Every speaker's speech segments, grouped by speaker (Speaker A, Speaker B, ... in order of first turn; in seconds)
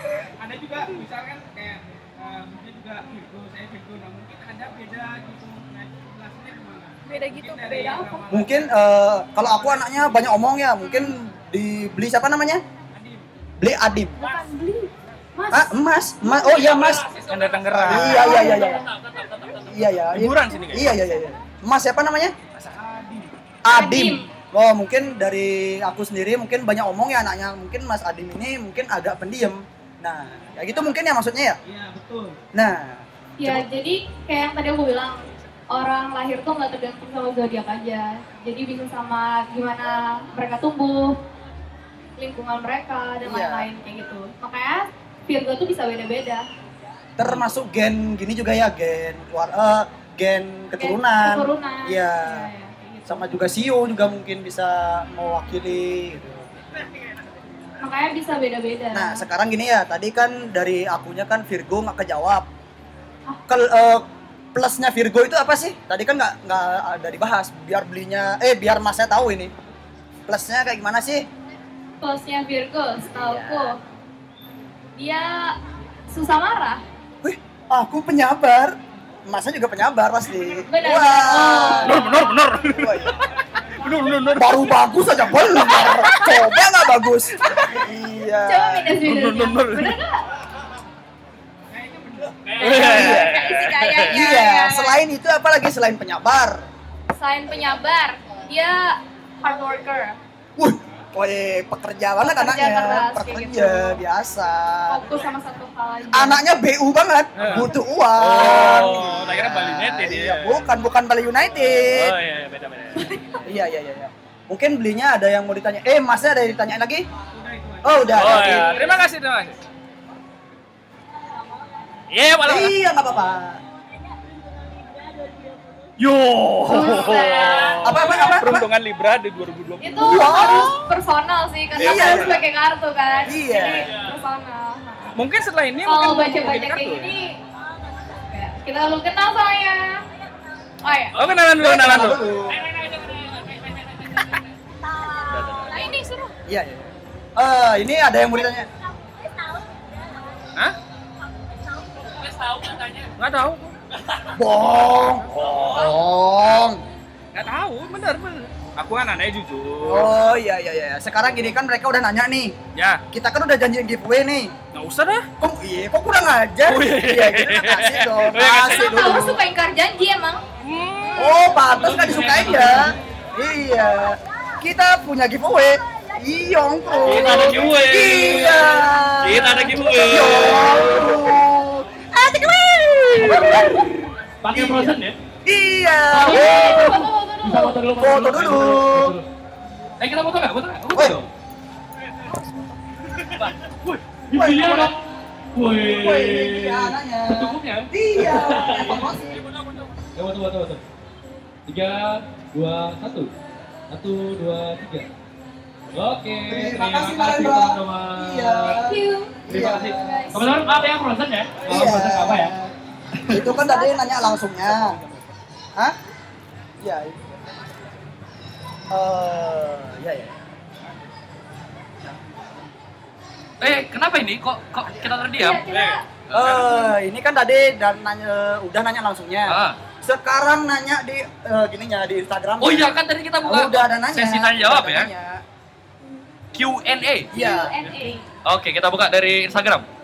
Speaker A: 0.4-8.5, 22.7-23.3, 31.6-32.4, 91.7-92.7, 117.3-118.3
Speaker B: 7.0-8.3, 14.2-15.7, 16.2-16.7, 17.9-18.9, 23.7-24.3, 33.4-41.2, 42.2-46.5, 50.8-53.4, 57.8-59.2, 72.0-73.8, 75.0-75.6, 76.1-76.8, 80.7-82.4, 85.9-86.2, 88.4-90.2, 92.6-95.0, 97.1-100.2, 102.2-104.0, 104.9-106.4, 118.4-118.8, 126.7-128.1, 129.8-135.1, 135.8-137.3, 138.1-140.0, 140.8-141.2, 145.6-146.3, 168.6-170.4, 171.0-171.5, 186.2-187.8, 208.8-210.5, 213.4-214.4, 225.3-226.0, 236.0-236.3, 237.3-238.2
Speaker C: 7.4-8.6, 17.3-18.5, 20.1-20.9, 81.8-83.3, 83.8-84.6, 85.7-86.0, 87.4-87.8, 89.0-90.0, 92.6-94.2, 107.4-110.6, 111.6-113.1, 118.1-119.6, 122.1-122.7, 126.0-130.6, 131.8-132.4, 135.2-137.2, 141.1-142.2, 153.2-153.8, 155.4-155.8, 157.3-160.1, 162.8-163.0, 164.7-165.3, 166.7-168.9, 170.6-171.2, 214.7-215.2, 225.7-226.0
Speaker D: 8.3-12.6, 13.6-14.2, 15.5-17.1, 17.7-18.9, 19.7-22.3, 23.6-31.6, 32.5-33.6, 43.2-43.7, 47.2-52.5, 53.0-56.5, 58.9-62.5, 63.5-64.0, 64.5-69.5, 70.3-71.2, 73.1-73.8, 77.2-78.8, 79.3-82.0, 82.6-83.2, 84.4-89.0, 92.7-93.4, 94.1-96.6, 100.6-105.1, 106.1-112.2, 113.5-117.0, 117.8-118.7, 122.4-123.6, 127.8-128.7, 130.0-130.8, 131.7-132.4, 133.2-133.9, 141.6-142.7, 146.5-148.7, 154.3-156.8, 159.8-162.6, 163.1-164.5, 165.4-169.4, 171.2-187.1, 188.0-189.2, 194.3-194.9, 195.7-199.4, 206.5-210.2, 211.7-212.7, 213.3-215.0, 216.8-217.3, 218.9-220.3, 226.3-235.4, 237.3-237.7
Speaker E: 16.4-19.8, 142.7-143.8, 145.3-145.7, 152.2-153.1, 155.4-155.7, 171.7-173.0, 177.0-180.9, 183.2-183.9, 184.4-185.2, 186.1-189.2, 190.0-191.3, 193.3-195.0, 195.5-199.1, 200.2-200.8, 201.7-203.3, 203.9-205.1, 205.9-208.8, 209.5-212.5, 213.2-213.5, 223.6-225.6, 226.3-226.6, 229.5-229.8, 232.6-235.1, 236.5-237.3, 238.4-239.8